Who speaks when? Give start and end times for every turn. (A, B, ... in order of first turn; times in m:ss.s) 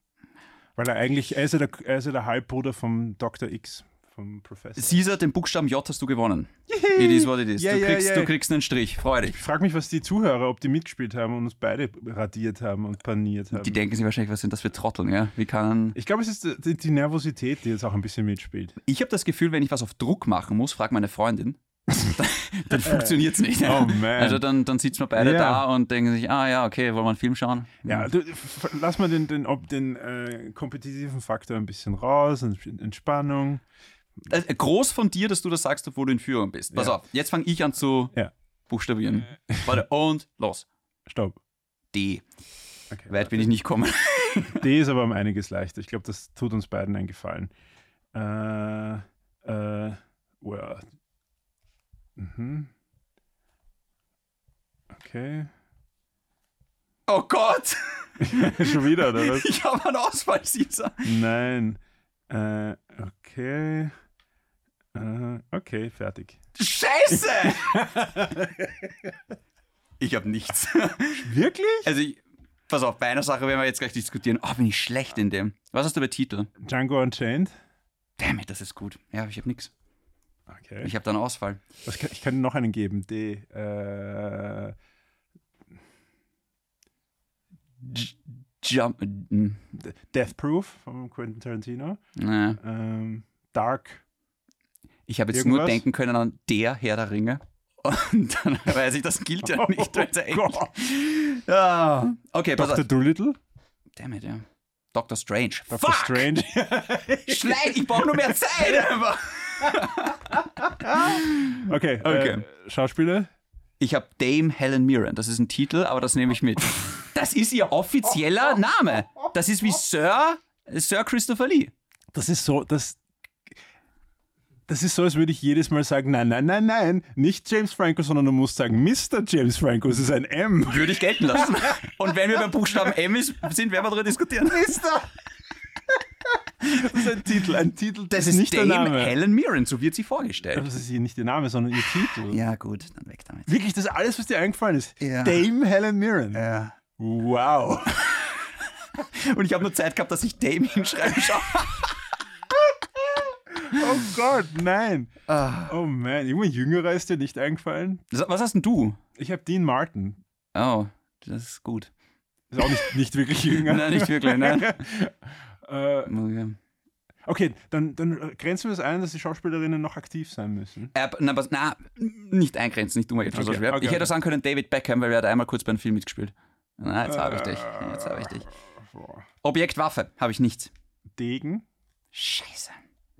0:00.8-0:05.0 A
0:04.8-0:09.4 B
0:06.7-0:08.3 A
0:09.3-0:13.8 A
0:13.5-0:16.0 B
0:15.9-0:18.8 A
0:18.8-0:28.1 B
0:22.7-0:24.4 A
0:25.1-0:25.6 A
0:27.8-0:33.6 A
0:34.3-0:38.1 B
0:36.7-0:37.0 A
0:38.7-0:40.6 B
0:41.1-0:41.4 A
0:41.9-0:42.2 B
0:42.9-0:43.5 A
0:43.1-0:44.6 B
0:44.6-0:47.5 A
0:48.1-0:50.8 A
0:52.2-0:52.7 A
0:54.9-0:55.5 A
0:57.1-1:01.1 B
0:58.2-0:59.5 A
1:01.0-1:03.9 A
1:04.9-1:06.4 A
1:06.6-1:07.8 B
1:07.1-1:09.1 A
1:10.0-1:11.3 B
1:11.1-1:11.9 A
1:11.8-1:16.5 B
1:16.6-1:17.5 A
1:18.2-1:19.7 B
1:20.5-1:20.9 A
1:20.8-1:21.6 B
1:21.8-1:24.8 A
1:27.8-1:29.6 B
1:29.7-1:32.0 A
1:32.2-1:32.6 B
1:32.6-1:34.0 A
1:35.1-1:42.8 B
1:35.3-1:35.8 A
1:39.4-1:40.7 A
1:42.6-1:43.4 A
1:44.0-1:46.3 B
1:45.7-1:48.8 A
1:47.2-1:52.4 B
1:50.8-1:53.3 A
1:53.8-2:01.7 B
2:02.1-2:03.0 A
2:04.7-2:11.9 A
2:10.6-2:14.9 B
2:14.5-2:15.2 A
2:15.9-2:19.2 A
2:18.1-2:20.7 B
2:20.5-2:22.4 A
2:21.8-2:23.5 B
2:23.5-2:26.4 A
2:25.0-2:25.4 B
2:26.3-2:26.7 B
2:27.0-2:28.1 A
2:28.0-2:28.4 B
2:29.0-2:32.0 B
2:33.0-2:35.1 A
2:35.3-2:35.7 B
2:35.7-2:38.0 A
2:38.1-2:39.0 B
2:39.2-2:40.2 A
2:40.5-2:41.9 B
2:42.5-2:46.1 A
2:42.6-2:42.9 B
2:43.5-2:44.8 B
2:46.0-2:46.6 B
2:47.2-2:50.9 A
2:50.9-2:58.5 B
2:53.3-2:54.1 A
2:57.0-2:59.2 A
2:59.4-3:00.7 B
3:01.1-3:01.6 A
3:02.1-3:02.8 B